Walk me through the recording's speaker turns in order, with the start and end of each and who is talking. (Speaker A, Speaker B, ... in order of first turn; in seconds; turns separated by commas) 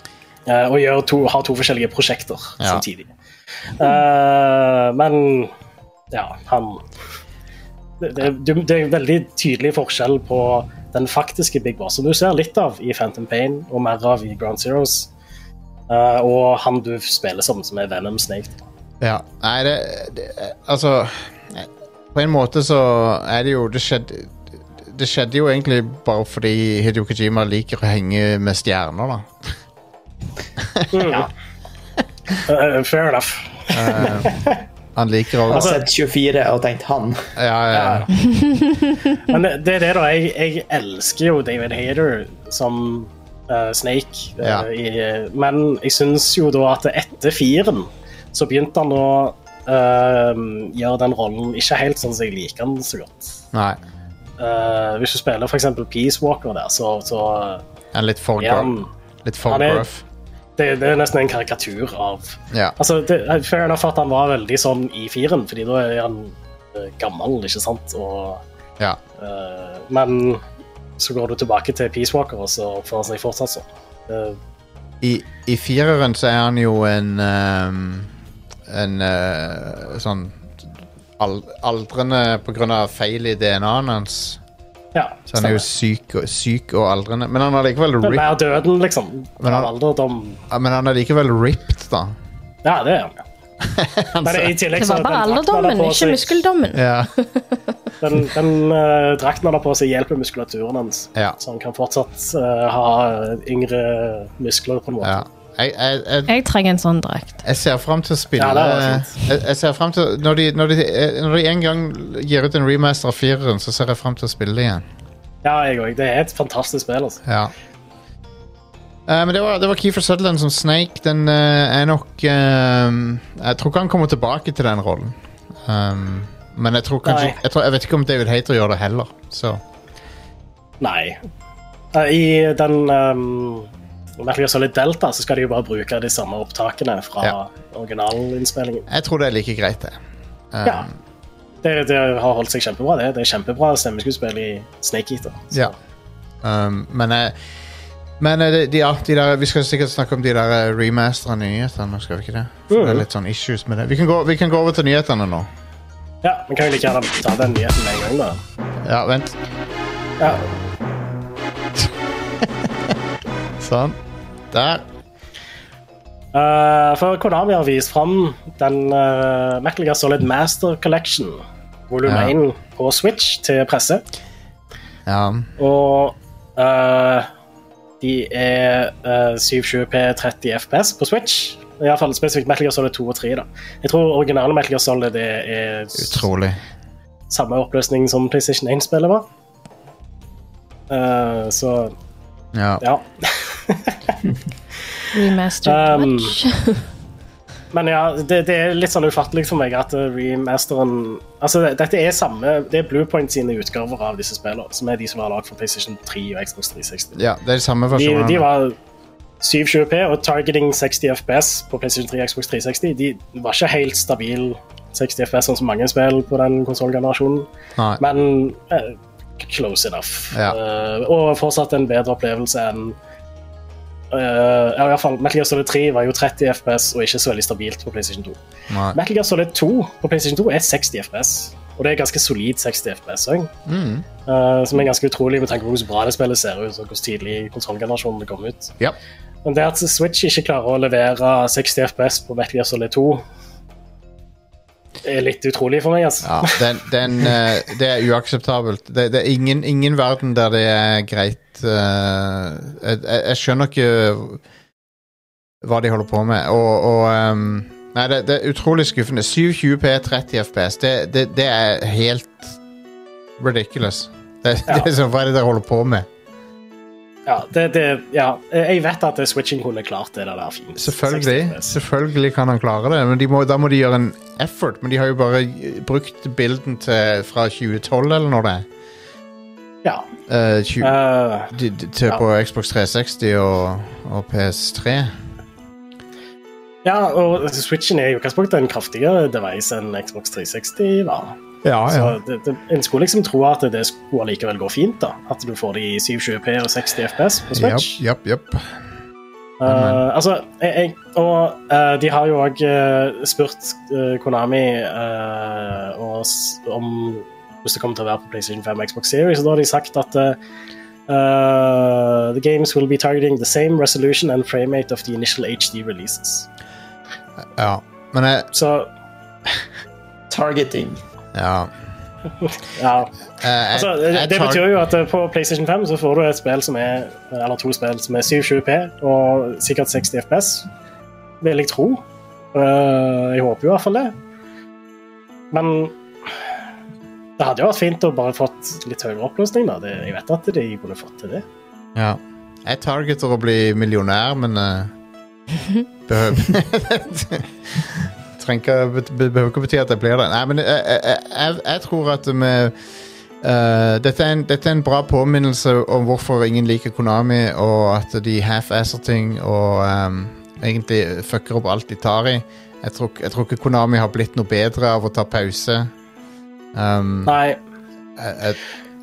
Speaker A: 0.5-3.1, Speaker B: 2.6-2.9, Speaker A: 3.8-5.5, Speaker A: 6.1-6.8, Speaker A: 8.0-15.1, Speaker A: 15.9-18.6, Speaker B: 19.0-29.5, Speaker B: 30.6-31.1, Speaker A: 30.9-31.3, Speaker A: 32.5-34.6, Speaker B: 33.7-34.4, Speaker B: 35.0-35.7, Speaker A: 35.5-35.8, Speaker C: 35.5-37.2, Speaker B: 37.4-38.1, Speaker A: 37.7-38.1, Speaker D: 38.3-38.9, Speaker A: 39.2-53.4, Speaker B: 44.4-44.7, Speaker B: 53.5-53.8, Speaker A: 54.4-57.6, Speaker B: 57.9-60.0, Speaker A: 58.4-58.9, Speaker A: 59.5-59.9, Speaker A: 60.6-68.4, Speaker B: 62.5-62.8, Speaker A: 69.2-70.4, Speaker A: 71.0-74.4, Speaker B: 75.0-78.1, Speaker B: 78.7-84.4, Speaker A: 84.9-85.7, Speaker B: 85.3-88.4, Speaker A: 88.0-90.4, Speaker B: 89.4-89.7, Speaker B: 90.5-92.2, Speaker A: 92.6-93.2, Speaker B: 93.6-94.6, Speaker A: 94.2-96.5, Speaker D: 94.8-97.4, Speaker B: 96.7-97.1, Speaker A: 98.0-105.3, Speaker B: 105.0-106.3, Speaker D: 106.3-107.4, Speaker B: 107.4-114.8, Speaker A: 108.4-109.1, Speaker A: 115.4-117.2, Speaker B: 117.3-117.5, Speaker B: 119.1-129.6, Speaker A: 127.1-127.4, Speaker A: 130.8-131.2, Speaker A: 131.9-138.9, Speaker B: 138.9-140.0, Speaker B: 140.5-140.9, Speaker A: 141.6-145.8, Speaker B: 146.4-147.3, Speaker B: 148.2-155.5, Speaker A: 152.7-153.1, Speaker A: 156.2-158.4, Speaker B: 158.8-159.4, Speaker A: 160.2-160.5, Speaker B: 162.4-162.9, Speaker B: 163.6-164.0, Speaker B: 164.5-164.8, Speaker A: 166.3-174.0, Speaker B: 172.1-172.3, Speaker B: 175.1-175.5, Speaker A: 175.6-177.3, Speaker A: 178.0-186.2, Speaker B: 186.0-186.6, Speaker A: 187.3-189.3, Speaker A: 190.9-191.9, Speaker B: 192.5-192.8, Speaker A: 192.8-194.2, Speaker D: 195.1-196.8, Speaker A: 195.6-196.4, Speaker A: 197.7-207.2, Speaker B: 207.2-208.5, Speaker A: 207.9-208.8, Speaker A: 209.4-217.5, Speaker A: 218.0-223.0, Speaker B: 220.3-220.6, Speaker A: 224.1-228.4, Speaker B: 228.7-229.0, Speaker A: 228.9-233.5, Speaker B: 233.7-234.1, Speaker A: 234.3-238.7, Speaker A: 239.4-243.2, Speaker A: 245.0-246.6, Speaker B: 246.2-254.4, Speaker B: 255.6-262.6, Speaker B: 263.4-266.1, Speaker A: 267.3-271.8, Speaker B: 270.8-278.6, Speaker B: 280.3-280.9, Speaker A: 280.8-281.5, Speaker B: 281.5-285.1, Speaker A: 286.8-291.4, Speaker B: 291.6-292.2, Speaker A: 291.9-298.0, Speaker B: 297.5-298.7, Speaker A: 299.6-310.4, Speaker B: 299.7-300.0, Speaker A: 311.1-316.5, Speaker B: 317.6-318.5, Speaker A: 318.5-318.9, Speaker C: 320.3-321.0, Speaker B: 321.4-321.7, Speaker A: 322.4-323.1, Speaker B: 323.4-324.7, Speaker A: 323.7-330.7, Speaker A: 331.4-332.0, Speaker A: 332.5-334.1, Speaker A: 335.5-335.9, Speaker A: 337.4-341.4, Speaker B: 341.9-344.9, Speaker B: 346.1-352.8, Speaker B: 353.4-365.9, Speaker B: 366.7-367.3, Speaker A: 367.3-367.6, Speaker B: 368.2-368.6